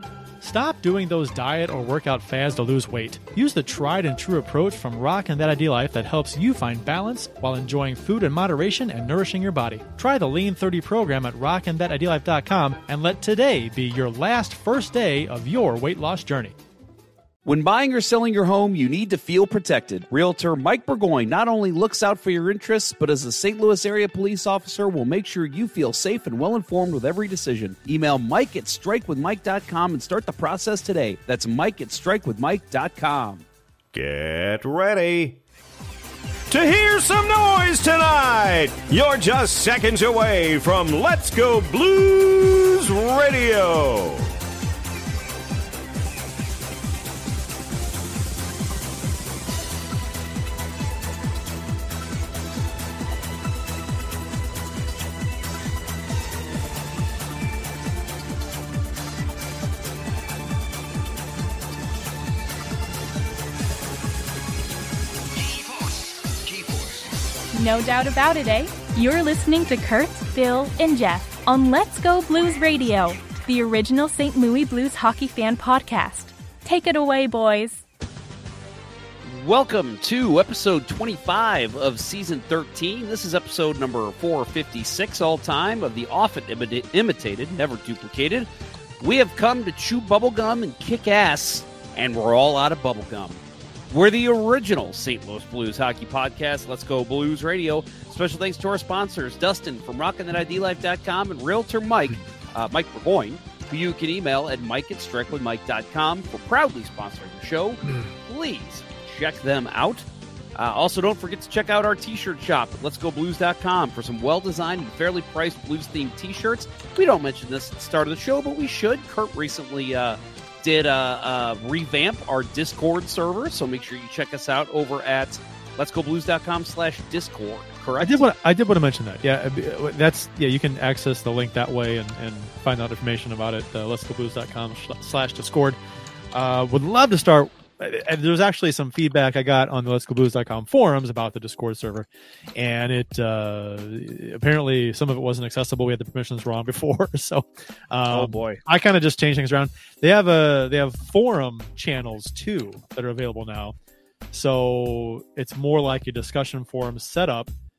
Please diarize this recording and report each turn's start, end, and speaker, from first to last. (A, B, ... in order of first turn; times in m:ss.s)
0:00.4-0:16.5 A
0:17.4-0:33.4 B
0:33.9-0:35.3 C
0:36.5-0:44.1 C
1:07.5-1:17.8 D
1:19.2-1:28.5 B
1:29.0-2:08.1 B
2:08.0-2:15.8 A
2:16.3-2:33.7 A
2:28.1-2:28.6 B
2:34.3-2:37.5 A